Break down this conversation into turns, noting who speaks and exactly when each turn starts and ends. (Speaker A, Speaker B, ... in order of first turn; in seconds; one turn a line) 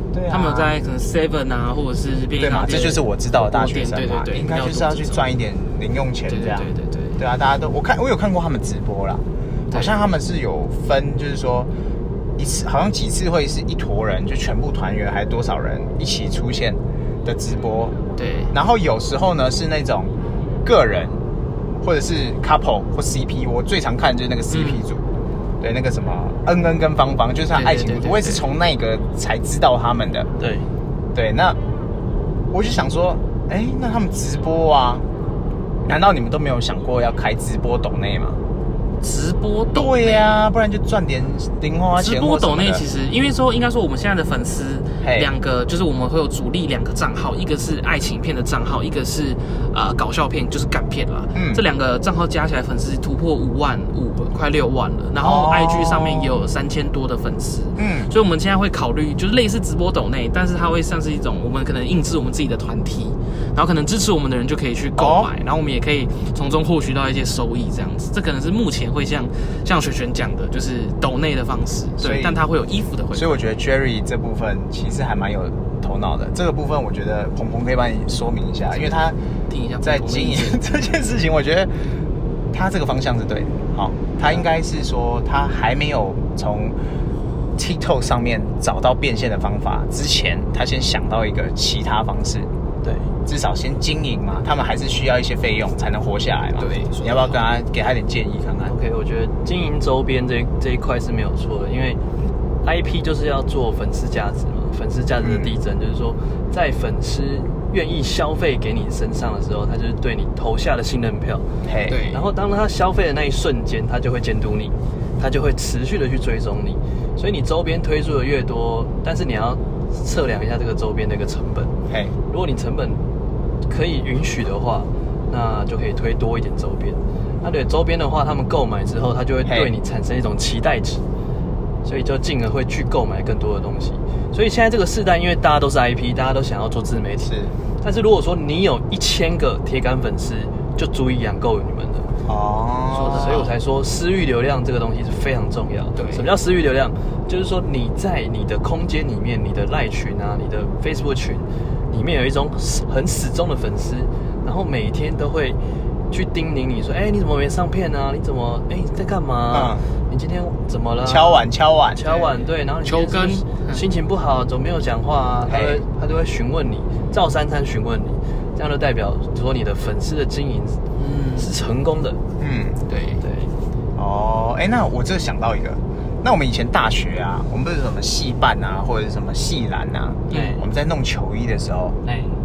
Speaker A: 0.1-0.8
Speaker B: 0.3-5.2
Speaker A: 2.4-11.7
Speaker B: 6.3-7.2
Speaker A: 12.4-18.0
Speaker B: 18.2-18.5
Speaker A: 18.5-20.1
Speaker A: 20.6-21.2
Speaker A: 21.8-25.0
Speaker B: 24.5-24.8
Speaker A: 25.6-30.3
Speaker B: 27.5-28.4
Speaker C: 30.4-30.7
Speaker A: 31.1-31.6
Speaker A: 32.5-35.0
Speaker A: 35.9-38.4
Speaker B: 39.0-40.5
Speaker A: 39.7-42.9
Speaker B: 42.0-73.4
Speaker A: 45.0-45.3
Speaker A: 51.4-51.6
Speaker A: 55.2-56.4
Speaker A: 57.8-58.1
Speaker A: 65.0-65.3
Speaker A: 72.0-72.4
Speaker A: 73.1-79.2
Speaker B: 79.5-80.7
Speaker A: 79.8-81.7
Speaker A: 82.5-86.8
Speaker A: 87.6-92.5
Speaker C: 92.8-93.1
Speaker A: 93.3-98.7
Speaker B: 96.6-97.4
Speaker C: 98.6-102.0
Speaker C: 102.6-111.5
Speaker A: 105.2-105.5
Speaker A: 111.7-112.0
Speaker B: 111.9-112.2
Speaker C: 112.1-121.7
Speaker A: 121.9-122.1
Speaker C: 122.3-123.0
Speaker C: 123.7-131.0
Speaker A: 129.5-129.7
Speaker C: 131.8-142.1
Speaker A: 137.3-137.5
Speaker A: 142.3-143.4
Speaker B: 142.9-143.5
Speaker C: 143.0-155.6
Speaker B: 146.0-146.3
Speaker C: 156.1-170.8
Speaker A: 159.5-159.8
Speaker A: 161.1-162.0
Speaker B: 162.1-163.8
Speaker A: 165.5-165.8
Speaker B: 171.0-171.5
Speaker C: 171.4-172.2
Speaker A: 172.4-172.8
Speaker B: 172.9-173.2
Speaker C: 173.2-173.5
Speaker A: 174.0-182.0
Speaker C: 180.3-180.6
Speaker C: 182.1-182.3